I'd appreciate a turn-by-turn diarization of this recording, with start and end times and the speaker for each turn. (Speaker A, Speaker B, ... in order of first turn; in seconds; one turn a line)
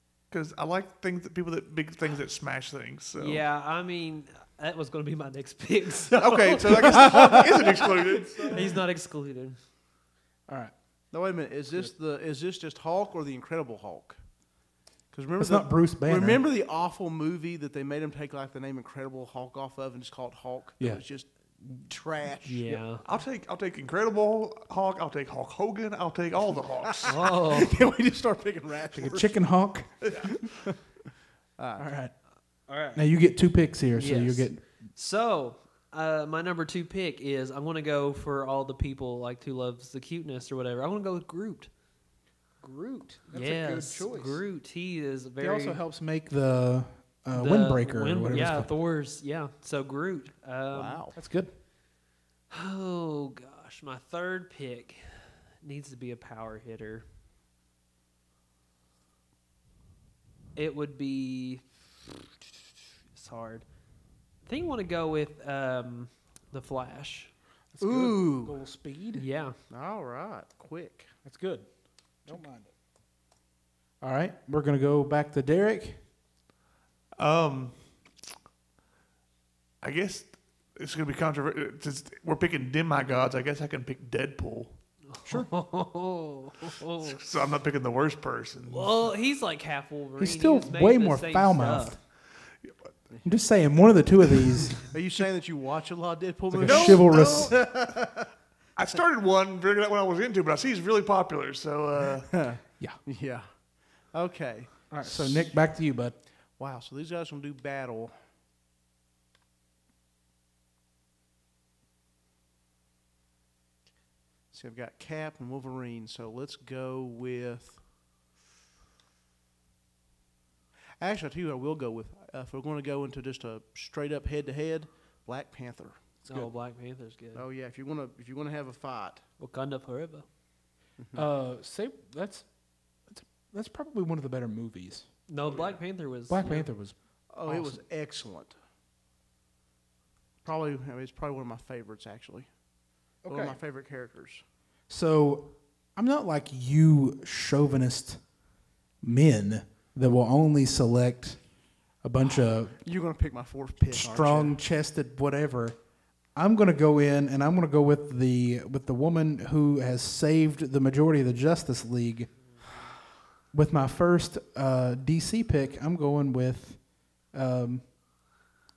Speaker A: 0.3-3.4
Speaker B: 3.2-7.0
Speaker A: 6.1-8.7
Speaker C: 6.2-8.6
Speaker D: 7.0-7.4
Speaker B: 8.5-9.6
Speaker D: 10.5-10.7
Speaker C: 11.1-14.2
Speaker C: 15.1-21.3
Speaker D: 15.4-16.4
Speaker C: 21.9-22.8
Speaker B: 22.5-23.1
Speaker A: 23.0-27.1
Speaker C: 26.9-29.4
Speaker B: 27.1-27.8
Speaker D: 28.9-29.9
Speaker C: 30.0-30.8
Speaker A: 30.1-30.4
Speaker C: 31.6-31.9
Speaker D: 31.8-32.1
Speaker B: 32.7-33.0
Speaker D: 32.9-34.6
Speaker B: 34.0-41.7
Speaker D: 42.6-44.4
Speaker B: 43.3-45.8
Speaker D: 45.4-48.7
Speaker B: 47.3-51.0
Speaker C: 50.7-51.2
Speaker D: 51.1-51.5
Speaker B: 52.5-57.1
Speaker B: 60.6-61.6
Speaker B: 63.1-63.6
Speaker B: 64.5-67.3
Speaker D: 67.7-69.3
Speaker C: 67.8-68.6
Speaker B: 69.2-69.6
Speaker C: 69.7-71.1
Speaker D: 71.2-71.7
Speaker D: 72.2-72.7
Speaker D: 74.0-76.0
Speaker A: 77.2-77.8
Speaker A: 79.8-84.8
Speaker B: 85.2-87.2
Speaker A: 87.0-89.1
Speaker B: 88.7-92.0
Speaker D: 90.2-92.0
Speaker D: 93.2-94.9
Speaker C: 94.8-98.3
Speaker D: 96.5-97.5
Speaker A: 96.6-97.7
Speaker A: 98.8-102.4
Speaker C: 102.3-103.5
Speaker C: 104.1-105.6
Speaker D: 104.9-106.2
Speaker C: 106.6-108.2
Speaker C: 114.5-117.8
Speaker C: 121.0-126.0
Speaker B: 126.3-127.4
Speaker C: 127.3-129.2
Speaker B: 129.4-130.2
Speaker C: 131.0-131.2
Speaker D: 131.2-132.5
Speaker D: 133.1-135.1
Speaker B: 135.3-136.7
Speaker C: 135.5-135.8
Speaker D: 136.3-137.8
Speaker C: 137.3-138.6
Speaker C: 140.4-142.5
Speaker D: 143.2-143.6
Speaker C: 143.3-144.4
Speaker D: 144.9-148.2
Speaker D: 149.0-151.4
Speaker D: 152.0-152.8
Speaker C: 152.3-154.6
Speaker D: 153.9-155.8
Speaker D: 156.3-162.3
Speaker D: 163.5-167.9